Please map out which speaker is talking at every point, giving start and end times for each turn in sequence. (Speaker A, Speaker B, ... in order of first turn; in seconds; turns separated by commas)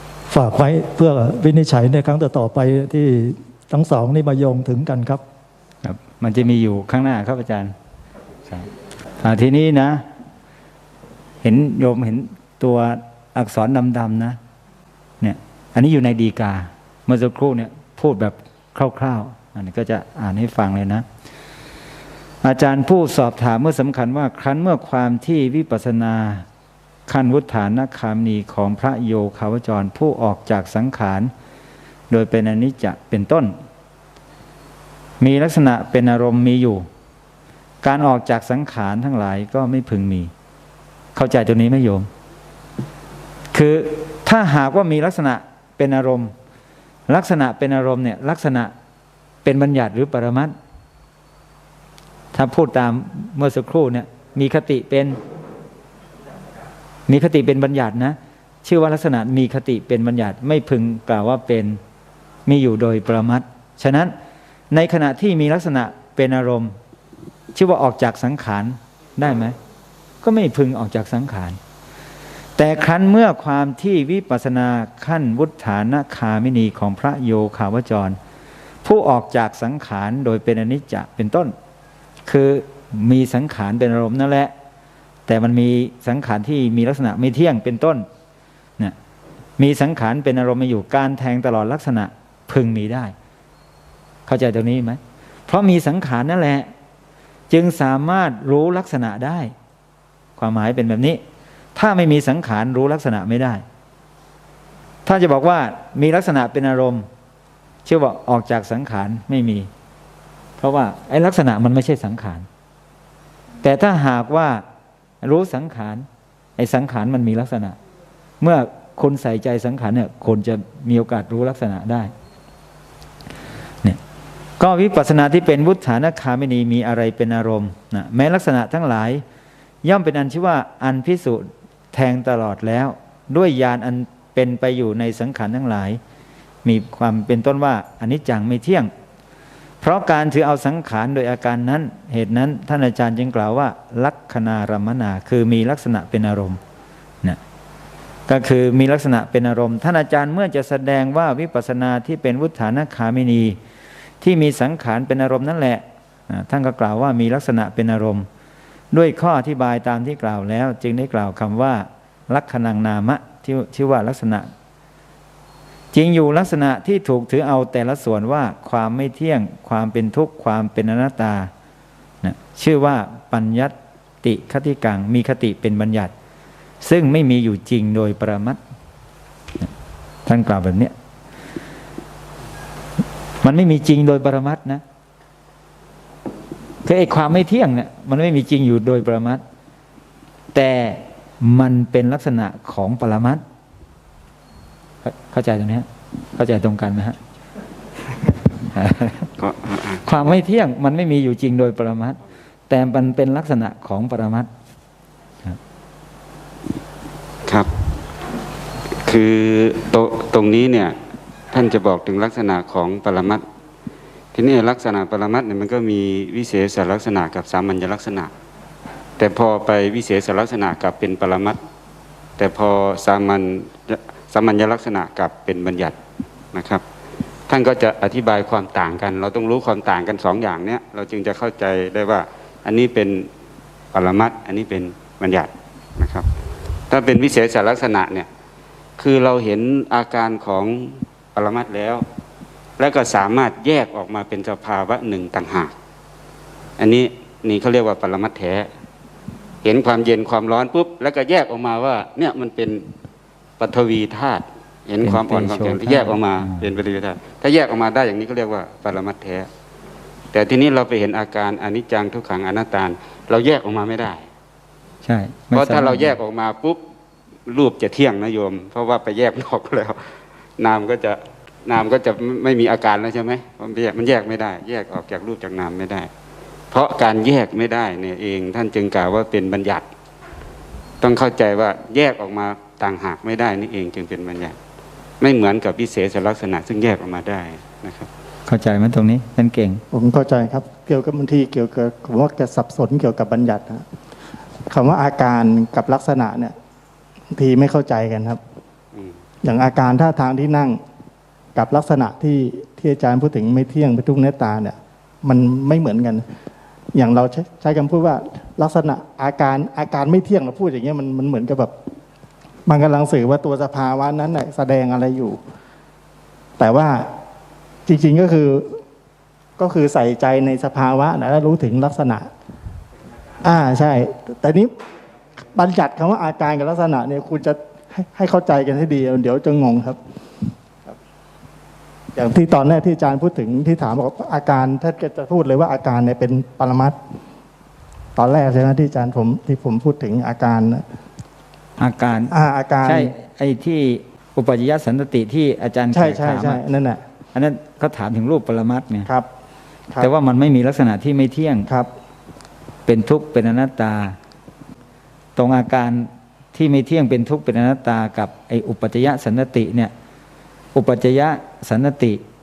Speaker A: 0.3-5.2, Speaker B: 5.8-7.7, Speaker B: 9.2-10.1, Speaker B: 11.4-14.4, Speaker B: 15.2-21.1, Speaker B: 22.4-26.4, Speaker B: 27.1-31.3, Speaker B: 32.1-33.6, Speaker B: 35.2-36.9, Speaker B: 37.8-40.3, Speaker B: 41.1-42.1, Speaker B: 43.5-46.3, Speaker B: 47.1-48.7, Speaker B: 49.4-50.5, Speaker B: 52.3-55.2, Speaker B: 57.1-61.8, Speaker B: 62.5-64.1, Speaker B: 64.7-66.8, Speaker B: 67.5-69.6, Speaker B: 70.2-71.6, Speaker B: 72.6-78.2, Speaker B: 78.8-81.5, Speaker B: 82.3-84.5, Speaker B: 85.3-88.1, Speaker B: 89.6-93.1, Speaker B: 94.3-96.7, Speaker B: 97.5-99.5, Speaker B: 100.4-101.2, Speaker B: 101.7-103.6, Speaker B: 105.0-107.1, Speaker B: 107.8-109.7, Speaker B: 110.6-112.5, Speaker B: 113.6-114.6, Speaker B: 115.2-116.1, Speaker B: 116.6-117.8, Speaker B: 118.4-122.1, Speaker B: 124.6-129.2, Speaker B: 129.8-136.0, Speaker B: 136.6-138.9, Speaker B: 139.8-146.6, Speaker B: 148.3-153.6, Speaker B: 154.2-158.3, Speaker B: 158.9-164.5, Speaker B: 165.9-171.5, Speaker B: 172.2-176.1, Speaker B: 176.8-178.6, Speaker B: 180.2-180.9, Speaker B: 183.4-184.8, Speaker B: 186.8-189.4, Speaker B: 190.5-193.4, Speaker B: 195.0-197.2, Speaker B: 198.7-199.3, Speaker C: 199.4-200.1, Speaker B: 200.1-202.2, Speaker B: 202.7-204.5, Speaker C: 209.0-210.9, Speaker C: 211.5-213.4, Speaker C: 214.3-218.3, Speaker C: 219.2-221.6, Speaker C: 222.4-225.9, Speaker C: 226.5-226.8, Speaker C: 227.5-233.3, Speaker C: 233.9-236.3, Speaker C: 236.9-238.3, Speaker C: 239.0-242.0, Speaker C: 242.8-245.7, Speaker C: 246.8-248.7, Speaker C: 249.6-252.9, Speaker C: 253.6-259.5, Speaker B: 255.0-256.7, Speaker C: 260.3-264.2, Speaker B: 265.0-266.1, Speaker C: 265.5-266.8, Speaker C: 267.5-276.1, Speaker C: 276.7-279.9, Speaker C: 281.0-284.6, Speaker C: 285.2-288.1, Speaker B: 288.5-289.8, Speaker D: 289.9-293.8, Speaker D: 294.7-296.5, Speaker D: 297.3-298.4, Speaker D: 299.4-300.8, Speaker D: 301.5-306.2, Speaker D: 306.9-311.7, Speaker D: 312.6-315.4, Speaker D: 316.6-317.1, Speaker D: 317.9-318.8, Speaker D: 319.6-322.3, Speaker D: 323.4-324.7, Speaker D: 325.5-330.0, Speaker D: 332.1-337.0, Speaker D: 338.1-340.8, Speaker B: 341.8-346.6, Speaker D: 342.3-343.1, Speaker D: 345.9-347.0, Speaker B: 347.3-349.1, Speaker B: 350.0-351.7, Speaker B: 352.9-354.2, Speaker B: 355.4-359.9, Speaker B: 360.7-362.2